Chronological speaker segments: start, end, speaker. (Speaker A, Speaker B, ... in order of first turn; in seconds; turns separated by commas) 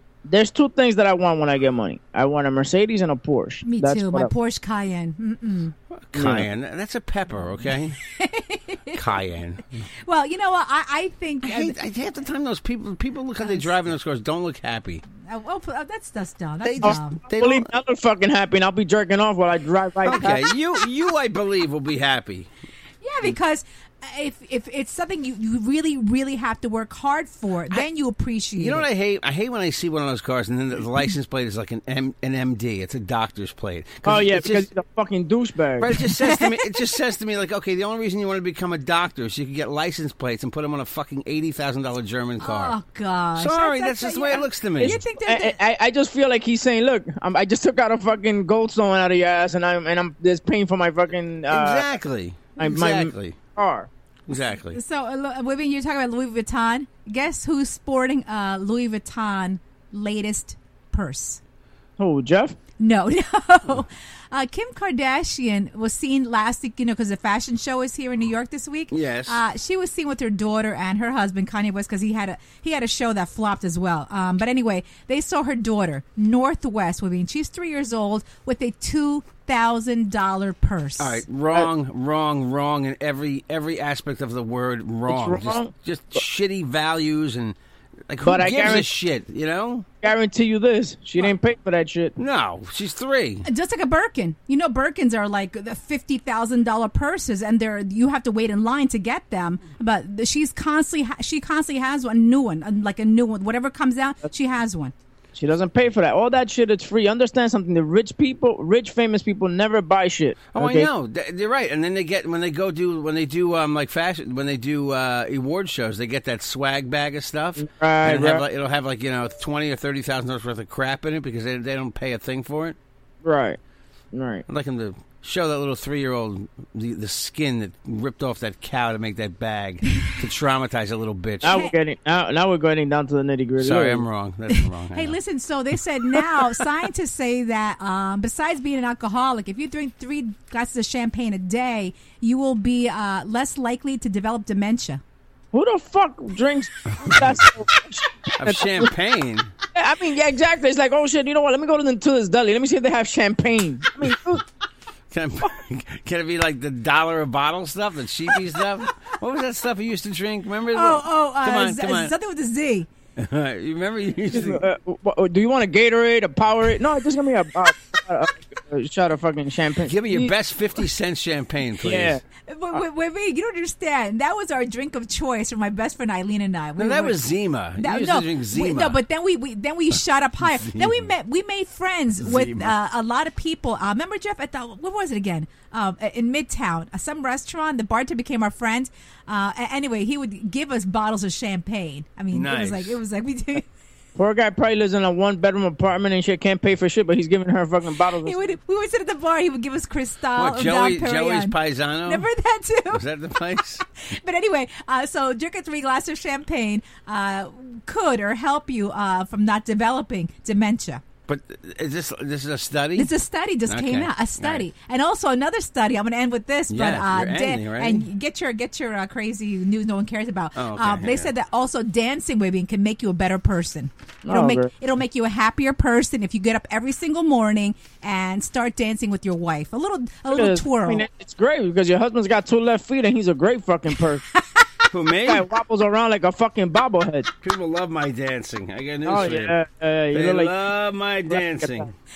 Speaker A: 0.2-4.3, Speaker B: 3.6-5.7, Speaker C: 5.9-8.0, Speaker A: 6.1-6.5, Speaker B: 8.1-9.0, Speaker C: 8.9-9.8, Speaker B: 10.1-11.7, Speaker C: 11.4-15.0, Speaker B: 13.4-13.7, Speaker B: 15.2-17.2, Speaker C: 16.6-17.7, Speaker A: 16.8-20.4, Speaker C: 20.0-22.5, Speaker B: 23.0-28.8, Speaker C: 28.6-34.7, Speaker A: 34.0-36.0, Speaker C: 35.8-42.8, Speaker B: 36.2-36.8, Speaker B: 42.4-45.6, Speaker C: 43.4-45.0, Speaker A: 44.8-51.9, Speaker C: 51.5-53.4, Speaker A: 52.6-53.9, Speaker C: 54.3-54.8, Speaker B: 54.3-61.4, Speaker A: 62.0-62.5, Speaker B: 62.8-81.2, Speaker C: 68.9-69.4, Speaker C: 81.0-87.5, Speaker A: 85.1-85.7, Speaker C: 88.1-89.9, Speaker A: 88.2-88.9, Speaker A: 90.0-92.1, Speaker C: 92.2-93.4, Speaker B: 93.4-104.9, Speaker A: 105.3-110.9, Speaker C: 110.5-122.8, Speaker A: 117.6-118.4, Speaker A: 123.2-123.6, Speaker A: 124.1-124.4, Speaker C: 124.5-131.6, Speaker A: 131.4-134.1, Speaker B: 131.5-131.7, Speaker C: 133.6-135.2, Speaker B: 134.9-145.0, Speaker A: 145.5-148.9, Speaker C: 148.4-149.5, Speaker A: 149.7-154.4, Speaker C: 155.1-162.1, Speaker B: 160.7-162.9, Speaker C: 163.2-164.6, Speaker A: 164.3-170.3, Speaker C: 169.9-172.2, Speaker A: 171.8-172.2, Speaker B: 172.5-177.2, Speaker C: 176.8-179.0, Speaker B: 177.8-193.6, Speaker C: 180.4-181.1, Speaker C: 182.2-182.7, Speaker C: 192.3-193.0, Speaker A: 194.2-198.6, Speaker B: 198.2-201.5, Speaker C: 200.3-202.3, Speaker B: 202.1-203.0, Speaker C: 202.9-203.8, Speaker B: 203.9-211.0, Speaker C: 211.3-213.1, Speaker B: 212.9-231.1, Speaker C: 213.7-214.6, Speaker C: 216.7-218.1, Speaker C: 220.6-221.3, Speaker A: 224.2-224.7, Speaker A: 230.3-234.2, Speaker B: 234.3-234.6, Speaker C: 234.9-235.4, Speaker A: 235.2-237.3, Speaker C: 237.4-239.5, Speaker A: 239.0-240.5, Speaker C: 240.1-241.9, Speaker A: 241.3-241.9